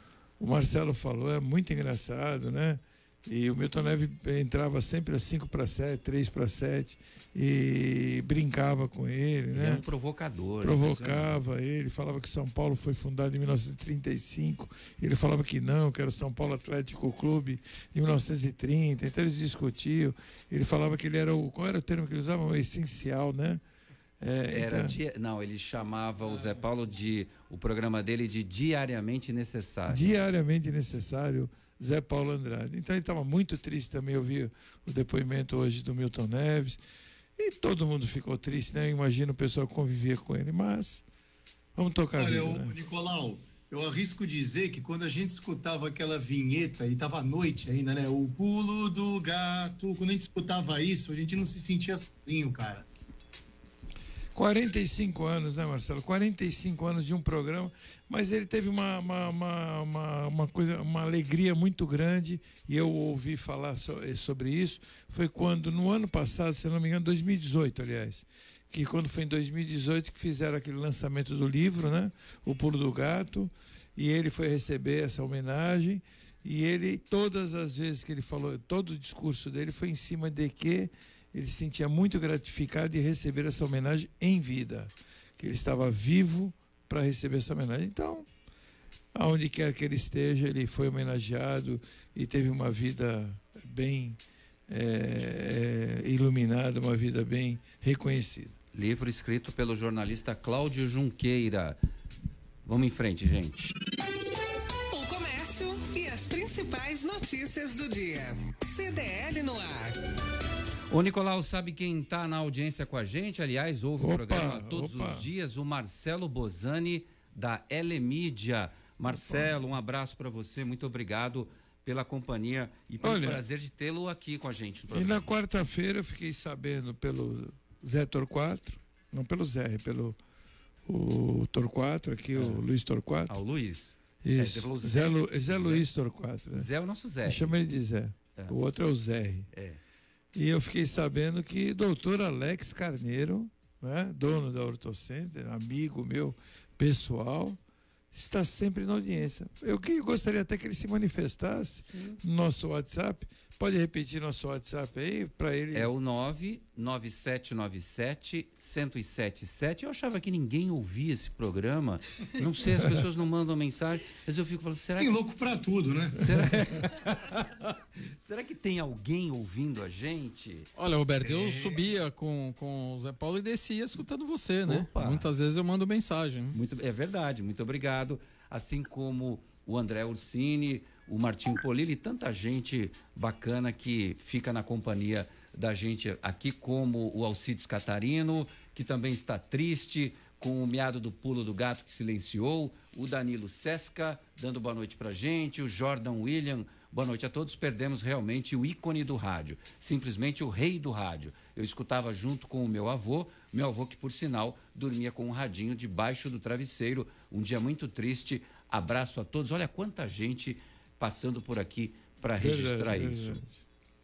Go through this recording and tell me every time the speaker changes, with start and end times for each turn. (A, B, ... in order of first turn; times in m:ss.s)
0:00.4-0:09.8 A
0:09.5-0:11.4 B
0:10.6-0:23.6 A
0:24.2-0:25.0 A
0:24.5-0:30.1 B
0:29.9-0:36.8 A
0:37.4-0:41.0 A
0:41.8-0:42.8 A
0:42.2-0:52.9 C
0:54.4-1:28.3 A
1:29.1-1:38.6 A
1:38.7-1:41.8 B
1:42.6-1:43.8 B
1:44.9-1:50.0 D
1:50.9-2:05.3 B
1:54.0-1:55.3 A
1:59.1-1:59.6 A
2:03.0-2:03.4 A
2:04.9-2:10.2 A
2:10.9-2:13.4 A
2:12.4-2:12.6 B
2:13.3-2:15.9 B
2:14.2-2:16.7 A
2:16.5-2:17.6 B
2:17.2-2:19.5 A
2:19.5-2:19.8 B
2:20.4-2:27.6 A
2:28.1-2:35.9 A
2:31.9-2:32.2 B
2:35.7-2:45.1 B
2:45.0-2:46.3 C
2:46.2-2:47.1 B
2:48.2-2:50.7 B
2:50.8-2:56.6 E
2:51.2-2:51.8 C
2:54.6-2:55.3 B
2:56.5-3:33.4 B
3:32.4-3:33.6 A